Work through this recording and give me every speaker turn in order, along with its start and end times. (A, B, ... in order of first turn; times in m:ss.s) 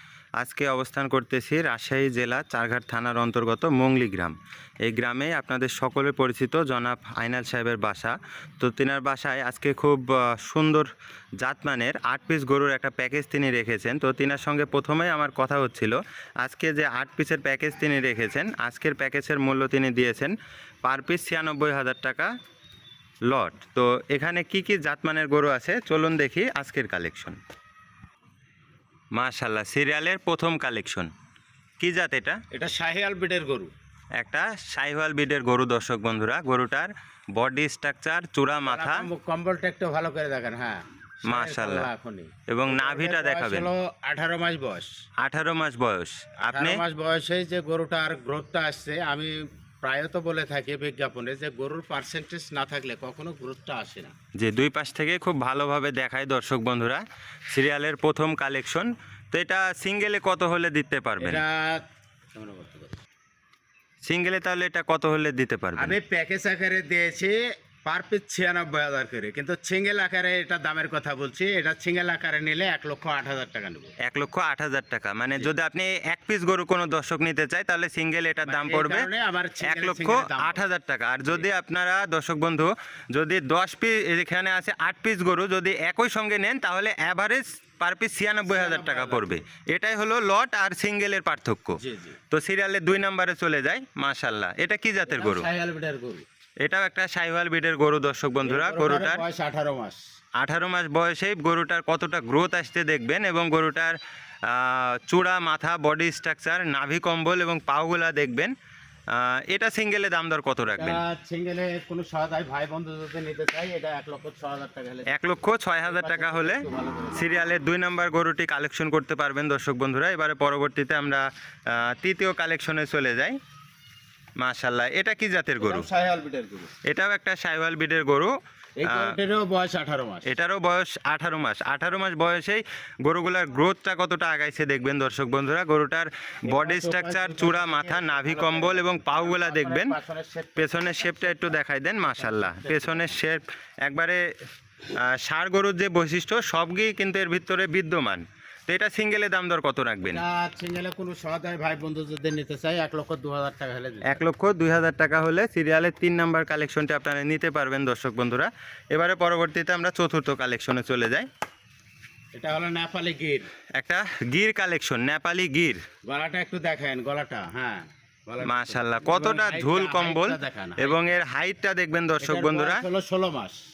0:00.4-0:10.9 A
0:11.4-0:22.3 A
0:23.3-0:27.4 A
0:29.1-0:31.1 A
0:31.8-0:32.4 A
0:32.5-0:33.7 B
0:34.2-0:39.1 A
0:38.7-0:44.9 B
0:41.3-0:41.9 A
0:42.5-0:43.7 A
0:45.2-0:46.8 A
0:46.5-0:54.1 B
0:54.4-1:01.4 A
1:01.2-1:03.0 B
1:04.0-1:06.0 A
1:05.8-1:13.9 B
1:14.0-1:19.1 A
1:18.4-1:20.6 B
1:19.6-1:35.5 A
1:28.5-1:29.4 B
1:31.8-1:32.2 B
1:35.1-1:36.2 B
1:36.6-1:39.2 A
1:38.4-1:40.0 B
1:40.4-1:48.5 A
1:49.1-1:51.0 A
1:50.8-1:55.2 B
1:55.1-2:03.4 A
1:55.8-1:57.3 B
2:04.4-2:05.9 A
2:05.6-2:06.7 B
2:06.8-2:09.2 A
2:08.8-2:10.3 B
2:10.3-2:19.9 A
2:16.5-2:23.1 B
2:20.6-2:24.2 A
2:25.0-2:30.2 A
2:30.0-2:34.2 B
2:34.1-2:41.3 A
2:42.3-2:43.5 B
2:43.8-2:45.8 A
2:46.1-2:51.0 B
2:48.4-2:52.8 A
2:52.2-2:53.6 B